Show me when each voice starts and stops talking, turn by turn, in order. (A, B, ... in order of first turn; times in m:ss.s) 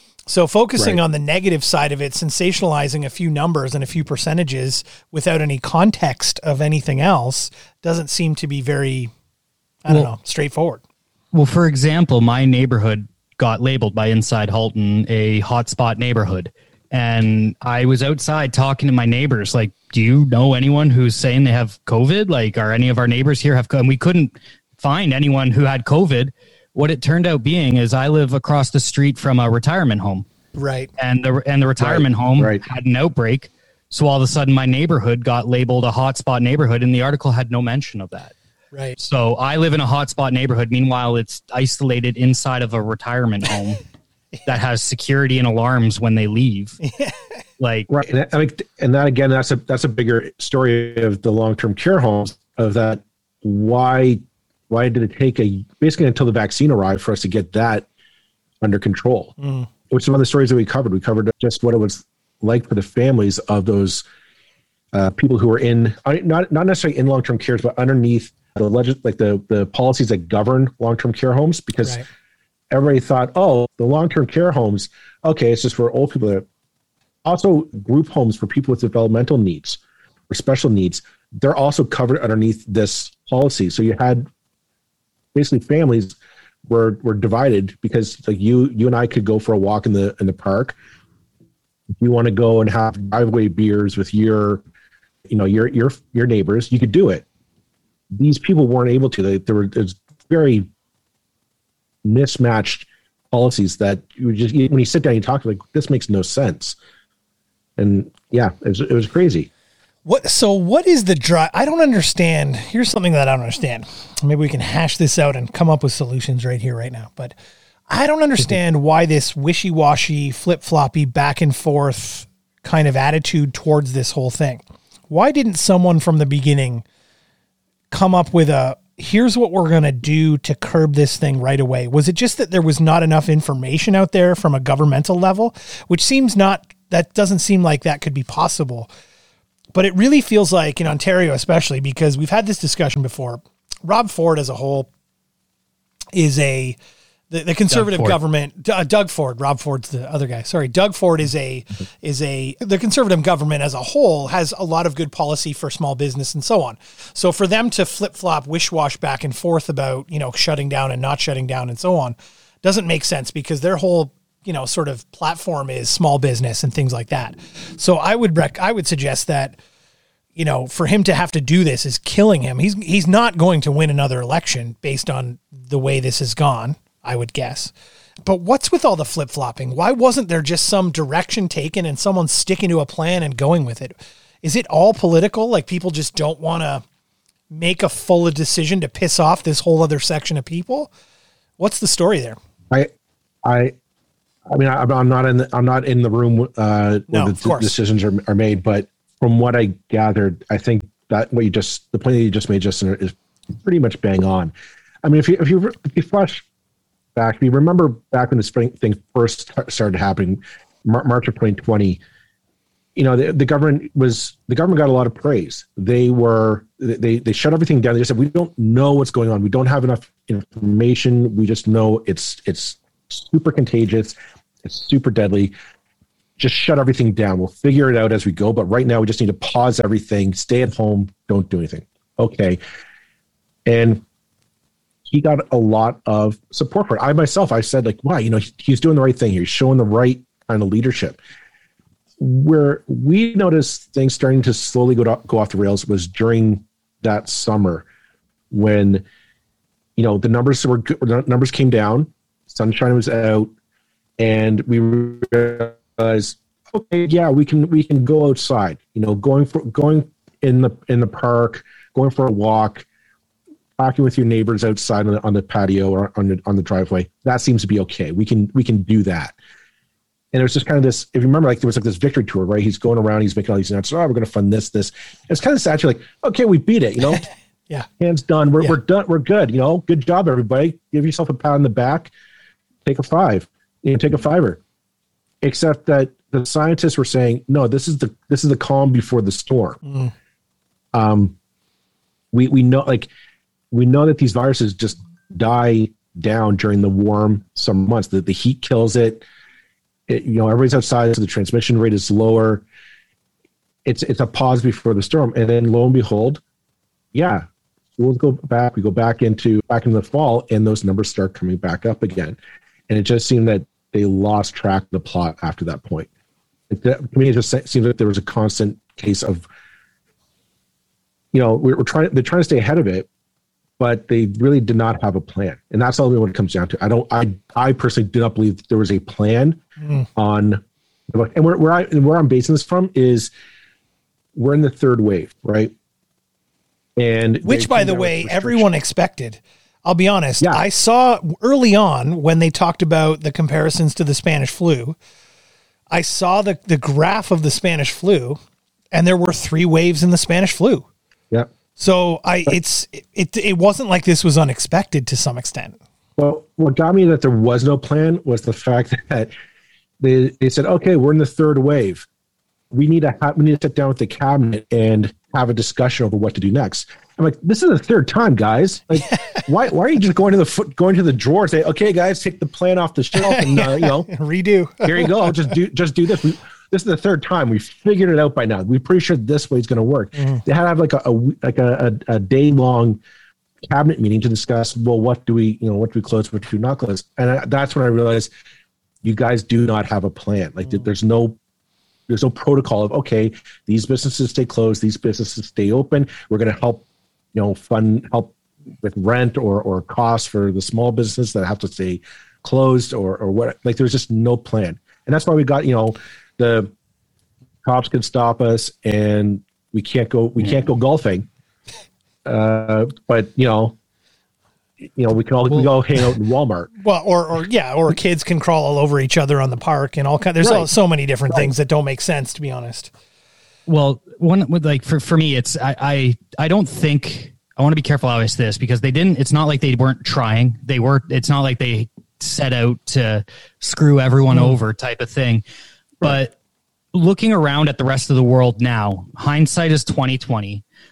0:00.3-0:09.1 A
0:09.8-0:10.8 A
0:11.3-0:30.2 B
0:30.6-0:30.9 A
0:31.0-0:38.3 B
0:31.8-0:32.6 C
0:39.0-0:43.8 B
0:44.4-0:46.8 B
0:46.9-0:47.2 A
0:47.6-0:47.9 B
0:47.9-0:57.8 C
0:58.6-0:59.3 C
0:59.4-0:59.7 A
0:59.9-1:04.0 C
1:04.9-1:12.0 C
1:12.7-1:16.4 C
1:17.2-1:24.3 C
1:25.3-1:26.2 C
1:26.7-1:30.8 C
1:32.0-1:34.6 C
1:35.3-1:37.2 C
1:38.1-1:40.7 C
1:42.0-1:46.8 C
1:47.8-1:49.5 C
1:50.0-1:57.3 A
1:57.9-2:06.8 A
2:07.9-2:18.9 A
2:19.7-2:24.9 A
2:26.1-2:26.8 A
2:27.3-2:49.6 A
2:27.7-2:28.2 B
2:50.4-2:57.7 A
2:58.2-3:06.8 A
3:07.5-3:10.9 A
3:11.6-3:12.4 A
3:13.4-3:13.7 C
3:14.5-3:24.5 C
3:17.1-3:17.7 A
3:25.0-3:26.4 C
3:27.2-3:32.0 C
3:33.0-3:45.5 C
3:46.4-3:52.6 C
3:53.6-3:54.0 C
3:55.0-4:01.2 C
4:02.2-4:07.8 C
4:08.5-4:09.0 C
4:10.0-4:13.5 C
4:14.2-4:22.8 C
4:23.8-4:29.3 C
4:30.3-4:37.2 C
4:38.0-4:42.1 C
4:42.8-4:44.6 C
4:45.4-4:49.8 C
4:49.9-4:50.1 A
4:50.9-4:51.3 C
4:52.3-4:53.1 C
4:53.7-4:59.2 C
5:00.1-5:02.6 C
5:03.8-5:06.4 C
5:07.1-5:07.4 C
5:08.0-5:12.4 C
5:12.9-5:16.1 C
5:16.7-5:19.4 C
5:21.3-5:23.1 C
5:23.8-5:29.6 C
5:29.8-5:30.1 A
5:30.2-5:33.3 C
5:34.3-5:35.7 C
5:37.0-5:38.7 C
5:37.4-5:45.0 A
5:45.9-5:48.4 A
5:48.9-5:50.9 A
5:51.8-5:55.8 A
5:56.2-5:59.3 C
6:00.0-6:02.1 C
6:02.7-6:14.1 C
6:09.0-6:09.4 A
6:13.2-6:15.5 A
6:14.8-6:23.0 C
6:20.2-6:20.4 A
6:23.6-6:28.3 C
6:29.0-6:31.4 C
6:32.1-6:46.7 C
6:47.6-6:51.3 C
6:52.2-6:53.8 C
6:54.9-6:56.7 C
6:56.8-7:02.9 A
7:00.4-7:00.7 C
7:03.7-7:15.4 B
7:16.0-7:16.3 B
7:16.9-7:20.6 B